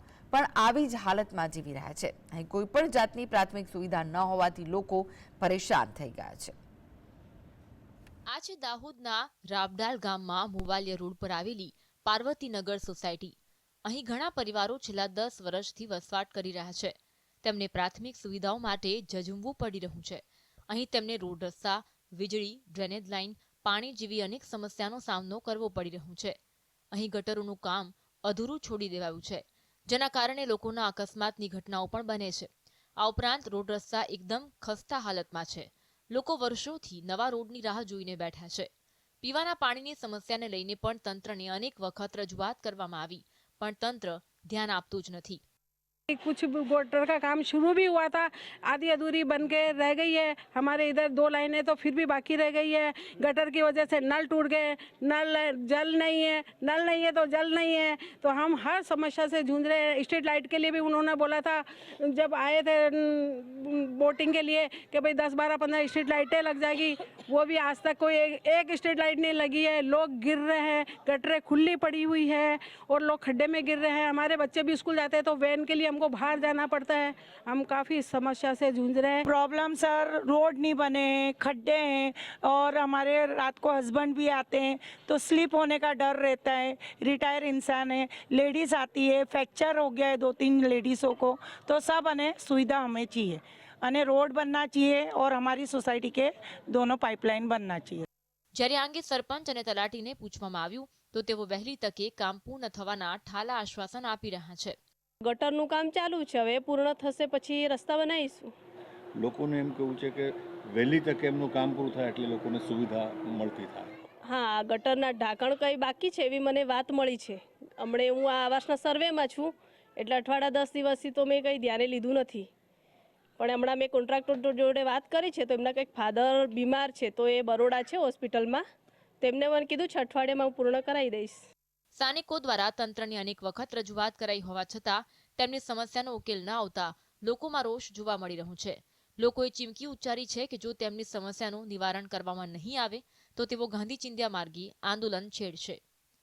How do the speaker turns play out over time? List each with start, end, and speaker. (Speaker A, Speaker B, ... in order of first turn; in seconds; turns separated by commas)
Speaker A: 0.3-6.5, Speaker B: 8.3-13.3, Speaker B: 13.8-26.4, Speaker B: 26.9-32.5, Speaker B: 33.0-38.7, Speaker B: 39.2-45.4, Speaker C: 46.1-79.2, Speaker D: 79.2-98.0, Speaker B: 98.5-104.7, Speaker E: 105.2-108.5, Speaker F: 109.2-113.9, Speaker E: 114.2-122.5, Speaker E: 123.4-128.6, Speaker E: 129.2-131.4, Speaker B: 131.9-145.8